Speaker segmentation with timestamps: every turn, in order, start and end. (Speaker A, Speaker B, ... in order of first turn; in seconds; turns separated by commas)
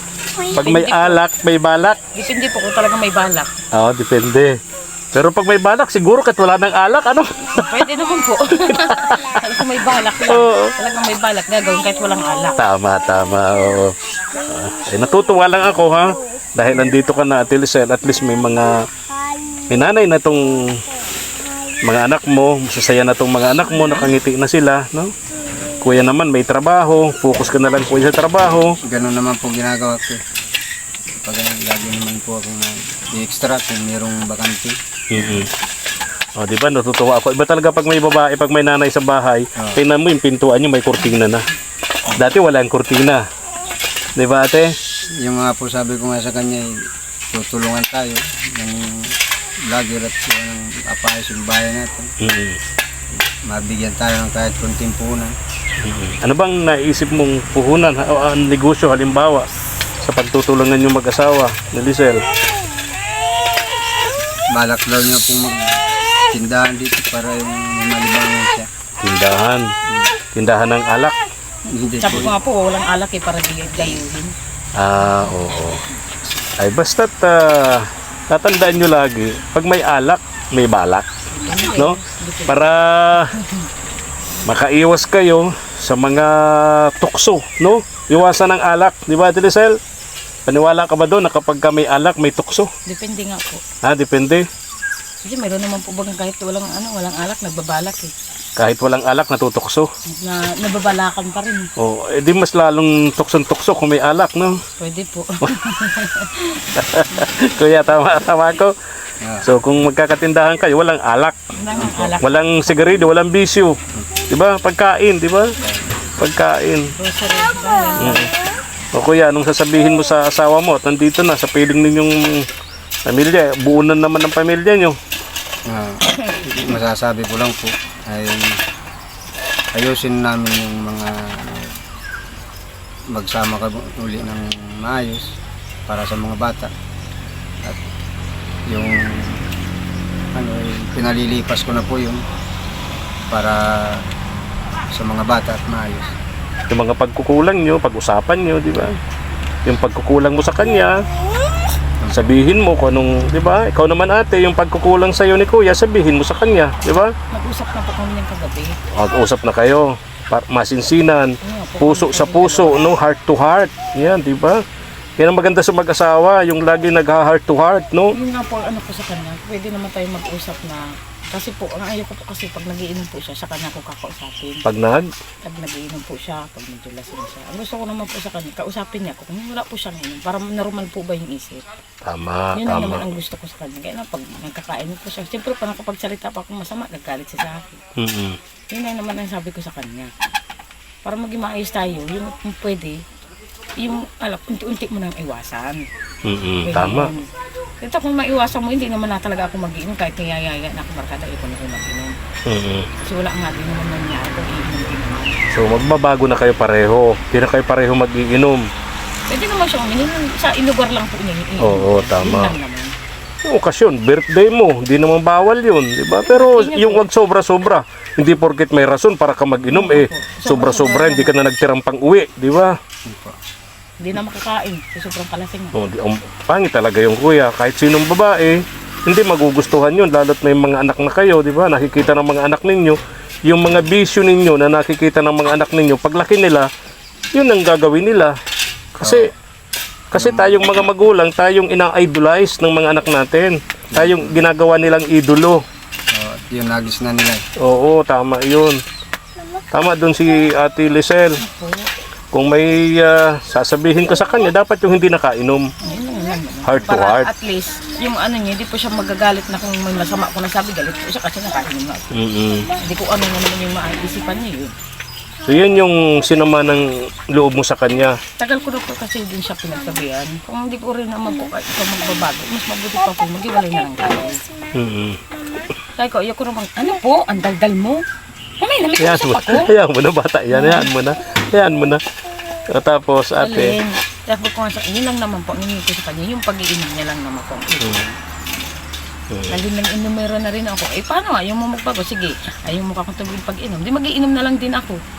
Speaker A: 0.5-1.2, Speaker B: 0.5-2.0, Speaker A: 2.1-3.5, Speaker B: 3.7-4.5, Speaker B: 5.1-7.8, Speaker A: 7.4-12.6, Speaker B: 8.5-9.4, Speaker B: 10.2-10.7, Speaker B: 12.5-18.8, Speaker B: 19.7-20.8, Speaker B: 21.8-25.1, Speaker B: 25.8-28.8, Speaker C: 28.9-30.2, Speaker C: 31.2-34.8, Speaker B: 35.1-35.5, Speaker B: 36.4-41.4, Speaker B: 42.1-43.2, Speaker B: 44.1-44.7, Speaker C: 45.2-46.7, Speaker C: 47.3-49.1, Speaker C: 49.7-52.1, Speaker B: 52.2-52.6, Speaker C: 53.3-55.3, Speaker B: 55.8-59.5, Speaker B: 60.0-62.2, Speaker C: 64.5-65.6, Speaker C: 66.3-68.7, Speaker B: 69.0-69.7, Speaker B: 70.3-71.2, Speaker C: 71.7-72.3, Speaker A: 72.0-74.3, Speaker B: 74.8-75.8, Speaker B: 76.6-81.1, Speaker A: 81.3-82.8, Speaker B: 81.7-83.3, Speaker A: 83.3-83.7, Speaker B: 84.4-89.8, Speaker B: 90.5-92.7, Speaker A: 92.8-93.6, Speaker B: 93.8-94.4, Speaker A: 95.2-98.1, Speaker B: 98.6-99.8, Speaker A: 100.1-101.7, Speaker B: 101.8-104.6, Speaker A: 104.8-107.3, Speaker B: 106.7-108.7, Speaker B: 109.4-111.4, Speaker A: 111.6-112.4, Speaker C: 111.8-112.1, Speaker B: 112.1-115.5, Speaker B: 116.2-116.9, Speaker A: 117.0-118.3, Speaker B: 118.0-118.3, Speaker B: 119.0-122.5, Speaker B: 123.0-125.0, Speaker C: 125.7-128.6, Speaker C: 129.7-131.7, Speaker C: 133.1-135.2, Speaker C: 135.9-136.7, Speaker C: 138.7-139.5, Speaker C: 140.3-142.2, Speaker C: 143.3-144.1, Speaker C: 144.9-146.2, Speaker B: 146.7-149.0, Speaker B: 149.7-151.0, Speaker C: 152.0-152.3, Speaker B: 152.1-157.1, Speaker A: 157.3-158.8, Speaker B: 158.9-164.6, Speaker A: 161.4-162.9, Speaker B: 165.2-168.2, Speaker A: 168.1-174.6, Speaker B: 174.6-175.1, Speaker A: 175.4-181.6, Speaker B: 182.0-183.1, Speaker A: 182.5-187.8, Speaker B: 188.0-188.4, Speaker A: 188.7-190.1, Speaker A: 191.0-193.0, Speaker A: 193.8-195.8, Speaker B: 196.2-197.1, Speaker A: 196.6-197.3, Speaker A: 197.8-202.1, Speaker B: 202.5-202.9, Speaker A: 203.0-205.4, Speaker B: 205.5-208.6, Speaker A: 209.3-212.9, Speaker B: 211.6-212.6, Speaker B: 213.5-222.7, Speaker A: 216.2-217.1, Speaker A: 219.7-221.4, Speaker C: 223.1-223.3, Speaker A: 224.0-225.8, Speaker B: 225.7-236.7, Speaker B: 237.3-238.3, Speaker B: 238.9-239.3, Speaker C: 239.0-239.3, Speaker B: 240.1-245.6, Speaker C: 240.1-240.6, Speaker C: 243.9-244.4, Speaker C: 246.1-247.4, Speaker B: 247.6-248.8, Speaker B: 249.7-251.4, Speaker A: 251.4-251.9, Speaker B: 252.3-255.7, Speaker A: 255.8-262.2, Speaker B: 256.6-257.3, Speaker B: 262.1-262.7, Speaker A: 262.7-264.7, Speaker B: 265.4-268.2, Speaker A: 268.4-274.4, Speaker B: 274.7-275.2, Speaker A: 275.9-278.0, Speaker A: 278.6-279.7, Speaker B: 278.9-282.0, Speaker A: 280.5-280.9, Speaker B: 282.7-283.8, Speaker A: 283.4-288.1, Speaker B: 289.3-289.6, Speaker A: 289.5-295.0